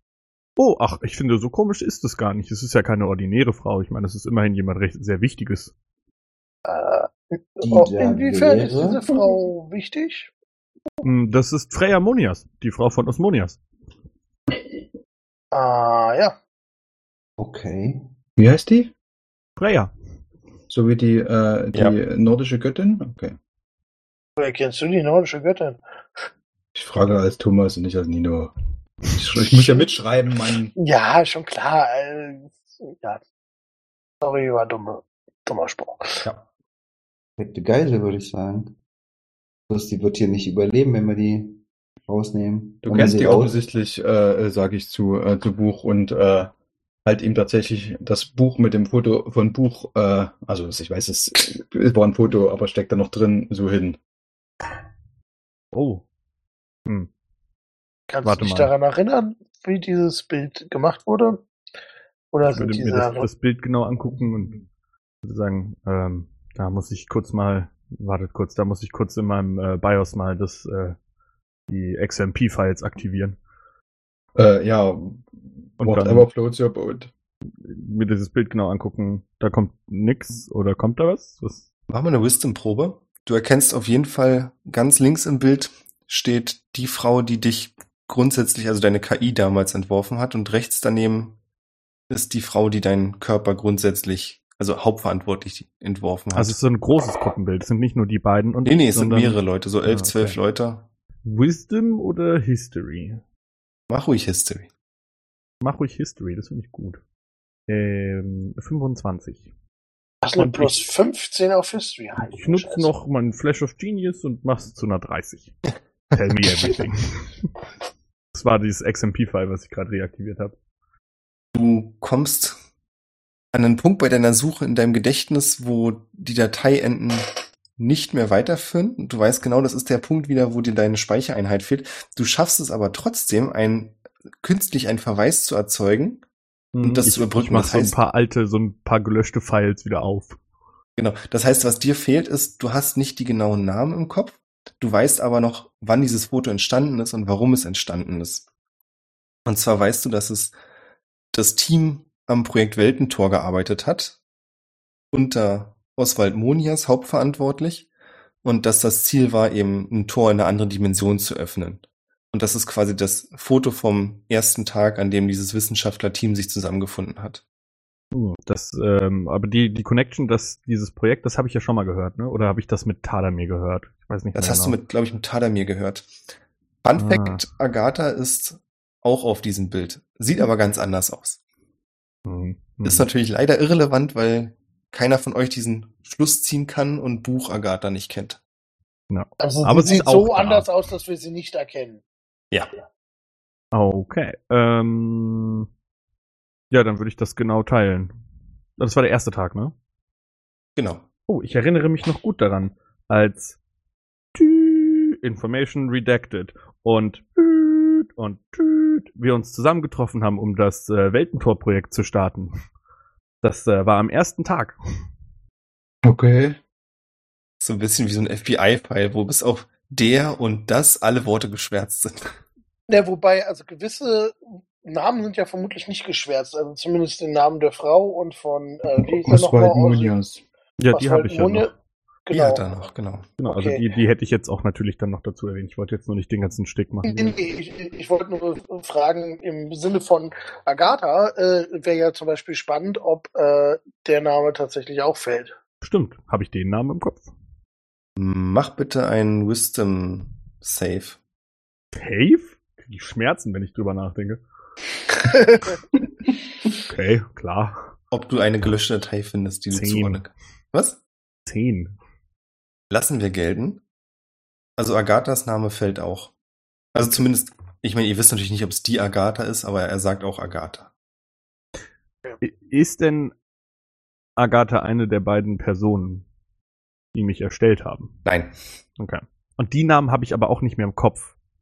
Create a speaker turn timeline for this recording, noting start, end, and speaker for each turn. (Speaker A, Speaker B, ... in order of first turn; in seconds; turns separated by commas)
Speaker A: 0.6-5.7, Speaker B: 6.7-10.3, Speaker C: 7.6-9.0, Speaker A: 11.0-13.6, Speaker B: 15.5-16.4, Speaker C: 17.4-18.0, Speaker D: 18.4-18.9, Speaker A: 19.6-19.9, Speaker D: 20.7-23.4, Speaker B: 24.4-26.2, Speaker D: 26.7-28.5, Speaker D: 29.0-30.7, Speaker B: 30.8-33.2, Speaker B: 34.2-36.2, Speaker E: 36.2-36.5, Speaker C: 37.4-38.8, Speaker C: 39.7-43.6, Speaker D: 42.8-46.5, Speaker D: 47.0-54.0, Speaker A: 55.7-56.0, Speaker B: 58.1-61.4, Speaker A: 58.2-58.7, Speaker B: 62.3-63.3, Speaker A: 62.5-64.6, Speaker A: 65.2-71.0, Speaker A: 71.7-73.4, Speaker D: 74.3-77.1, Speaker A: 75.8-76.3, Speaker A: 77.5-81.7, Speaker E: 81.9-91.3, Speaker E: 92.1-96.6, Speaker A: 96.3-100.4, Speaker E: 98.6-100.9, Speaker A: 101.2-103.2, Speaker E: 103.9-104.7, Speaker A: 105.6-107.0, Speaker A: 107.7-109.5, Speaker B: 110.2-112.9, Speaker A: 110.3-110.9, Speaker A: 112.2-115.5, Speaker A: 116.1-117.5, Speaker A: 118.3-120.5, Speaker E: 121.5-122.6, Speaker E: 123.5-136.2, Speaker A: 136.7-140.4, Speaker E: 136.8-138.0, Speaker E: 141.0-148.4, Speaker E: 149.4-150.5, Speaker E: 151.3-154.2, Speaker E: 155.1-157.9, Speaker E: 158.4-167.4, Speaker A: 168.1-174.8, Speaker E: 174.3-176.1, Speaker E: 176.8-181.4, Speaker A: 176.9-177.4, Speaker A: 182.2-183.1, Speaker E: 182.8-188.4, Speaker A: 189.1-190.7, Speaker B: 189.4-192.0, Speaker A: 193.7-195.7, Speaker A: 196.7-198.1, Speaker A: 198.8-199.7, Speaker E: 200.8-201.0, Speaker A: 201.3-203.6, Speaker A: 204.3-212.5, Speaker A: 213.4-214.8, Speaker D: 216.0-216.6, Speaker E: 217.6-222.3, Speaker B: 222.9-230.1, Speaker D: 228.9-230.4, Speaker A: 230.8-231.7, Speaker B: 230.9-231.7, Speaker B: 232.3-232.7, Speaker E: 232.3-233.3, Speaker A: 233.4-237.4, Speaker B: 233.4-233.8, Speaker B: 237.1-245.5, Speaker A: 245.8-247.3, Speaker E: 248.2-251.2, Speaker A: 251.9-254.4, Speaker A: 256.8-257.9, Speaker E: 258.1-261.0, Speaker A: 259.7-260.3, Speaker A: 261.4-261.9, Speaker E: 262.9-263.8, Speaker E: 264.8-266.3, Speaker E: 266.9-270.9, Speaker A: 272.4-273.3, Speaker A: 274.4-276.2, Speaker A: 277.1-278.1, Speaker E: 278.2-278.5, Speaker A: 279.0-281.3